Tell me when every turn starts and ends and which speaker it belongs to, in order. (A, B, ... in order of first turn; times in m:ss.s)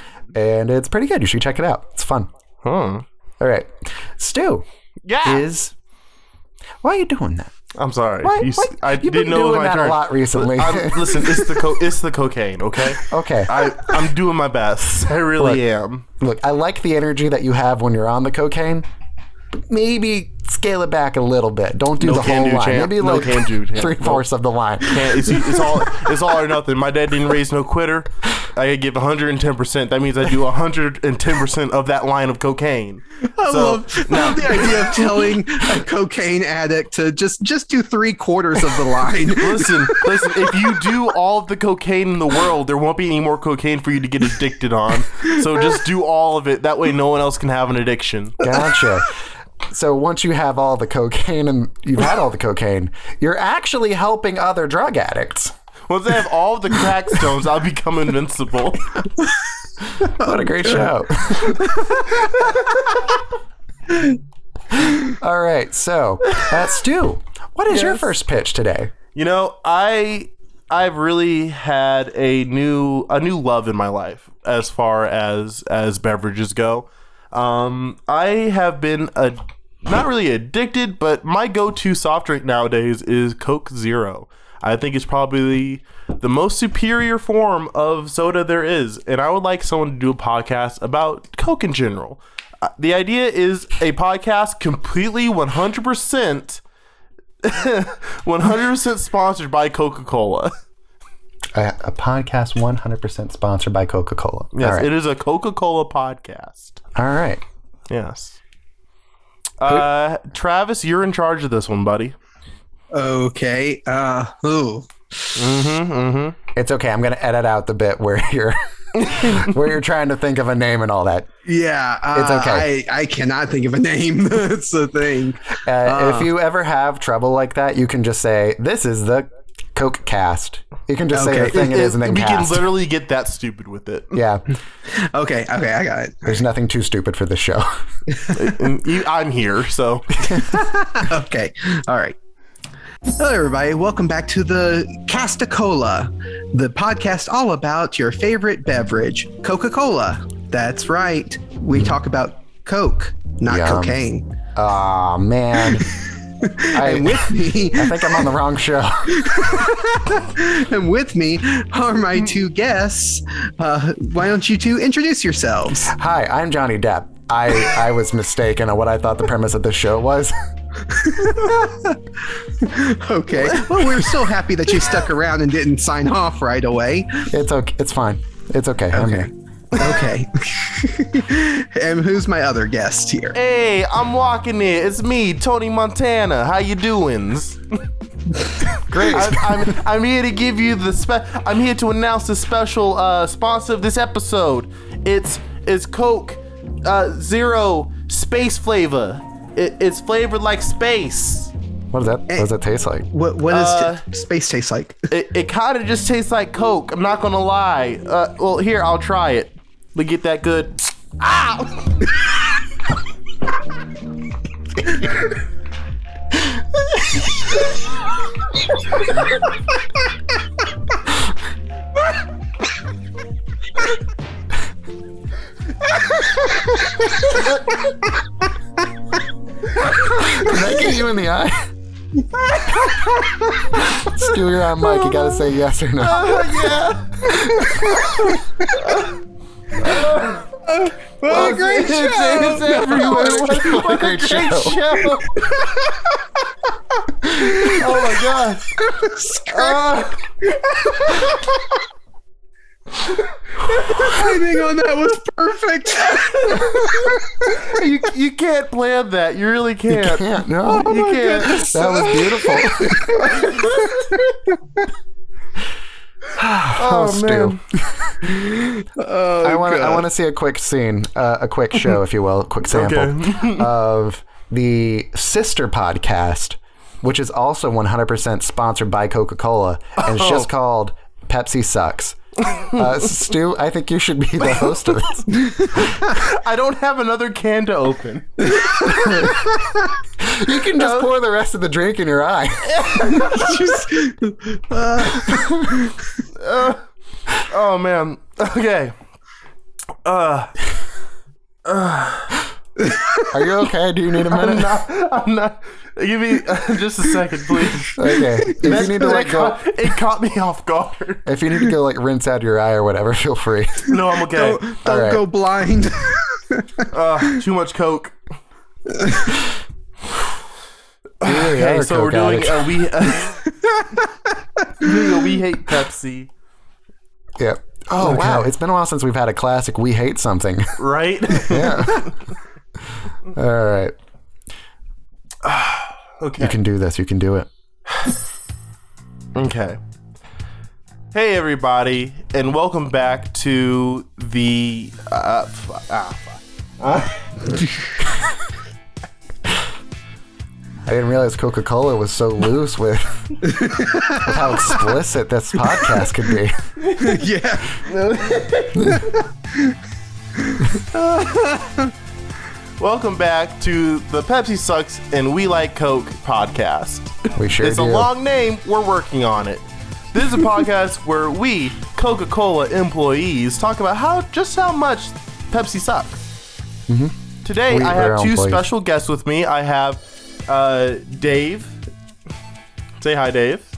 0:00.3-0:02.3 A
0:02.6-0:03.0 B
0:03.4-0:04.6 A
0:05.0-0:05.5 B
0:05.2-0:05.7 A
0:06.8-0:07.5 A
0:07.8-0:16.0 B
0:08.2-0:11.6 A
0:13.1-0:13.6 A
0:16.2-0:18.9 A
0:19.5-0:25.6 A
0:22.0-0:24.2 B
0:24.8-0:35.2 B
0:33.4-0:40.9 C
0:39.4-0:48.4 B
0:48.4-0:49.2 A
0:49.7-0:55.5 A
0:55.9-0:59.0 B
1:00.0-1:01.7 A
1:00.1-1:00.9 C
1:01.6-1:02.8 C
1:03.9-1:04.2 C
1:04.9-1:08.9 A
1:07.7-1:08.1 B
1:09.2-1:36.6 B
1:37.4-1:40.6 B
1:41.5-1:44.9 A
1:44.5-1:46.8 B
1:47.0-1:47.4 A
1:47.9-1:48.4 B
1:49.6-1:52.2 B
1:52.9-1:55.4 C
1:55.4-1:56.4 B
1:56.6-2:01.3 A
1:59.1-1:59.4 B
2:01.4-2:06.3 C
2:02.2-2:02.7 A
2:05.7-2:12.7 A
2:11.1-2:11.7 C
2:11.5-2:14.2 B
2:14.1-2:14.4 A
2:14.9-2:16.4 C
2:16.3-2:17.7 A
2:18.3-2:20.2 B
2:20.5-2:22.2 C
2:23.2-2:34.2 C
2:33.5-2:34.0 A
2:34.6-2:35.9 A
2:36.4-2:38.3 C
2:36.7-2:39.6 A
2:39.1-2:45.9 C
2:45.9-2:50.3 A
2:50.9-2:57.3 C
2:57.3-2:59.3 A
2:58.9-3:03.4 C
3:03.3-3:07.9 B
3:08.9-3:09.7 A
3:09.0-3:21.5 B
3:21.9-3:23.1 A
3:23.1-3:25.1 C
3:23.5-3:24.0 B
3:25.1-3:31.9 B
3:46.2-3:47.0 C
3:50.0-3:51.7 A
3:52.4-3:53.5 C
3:53.8-3:56.5 A
3:54.8-3:55.4 B
3:56.0-3:59.2 B
3:57.3-3:58.1 A
3:58.3-3:58.8 C
3:59.8-4:00.5 B
4:00.7-4:03.5 C
4:01.3-4:05.4 B
4:02.8-4:04.8 A
4:05.4-4:06.1 C
4:07.4-4:08.8 B
4:07.4-4:07.8 C
4:08.8-4:11.7 C
4:09.5-4:10.4 B
4:13.6-4:17.5 C
4:16.4-4:24.4 B
4:19.9-4:23.5 A
4:20.7-4:22.3 C
4:26.4-4:28.2 A
4:26.8-4:27.8 B
4:28.3-4:30.0 C
4:29.4-4:45.8 A
4:32.7-4:33.7 B
4:40.0-4:40.5 B
4:42.6-4:42.8 B
4:46.1-4:48.6 B
4:48.6-4:49.5 C
4:48.9-4:49.3 A
4:50.2-4:53.4 A
4:50.8-4:51.0 B
4:52.6-4:53.6 B
4:53.2-4:56.1 C
4:56.3-4:56.9 B
4:57.4-4:59.0 B
5:00.0-5:00.7 B
5:01.6-5:02.4 B
5:02.8-5:03.3 C
5:03.3-5:04.8 A
5:04.3-5:11.3 B
5:08.0-5:09.6 A
5:11.3-5:13.9 A
5:13.9-5:14.6 B
5:14.3-5:16.9 C
5:14.8-5:15.2 A
5:16.9-5:18.2 B
5:18.9-5:19.4 C
5:21.2-5:23.4 B
5:21.2-5:22.8 A
5:24.8-5:26.3 B
5:27.4-5:30.8 A
5:28.0-5:28.5 C
5:30.8-5:32.1 B
5:31.4-5:32.1 A
5:33.3-5:33.9 A
5:35.4-5:36.6 B
5:36.4-5:37.5 A
5:39.4-5:39.8 B
5:41.1-5:47.2 B
5:50.9-5:53.6 A
5:53.5-5:54.7 C
5:54.1-5:56.6 A
5:56.8-5:57.1 B
5:57.0-5:57.8 C
5:57.8-5:59.0 B
5:58.8-5:59.8 C
6:00.4-6:01.9 C
6:02.8-6:16.2 B
6:07.4-6:08.1 A
6:16.9-6:17.2 A
6:17.4-6:21.8 B
6:17.7-6:18.6 A
6:23.0-6:23.6 B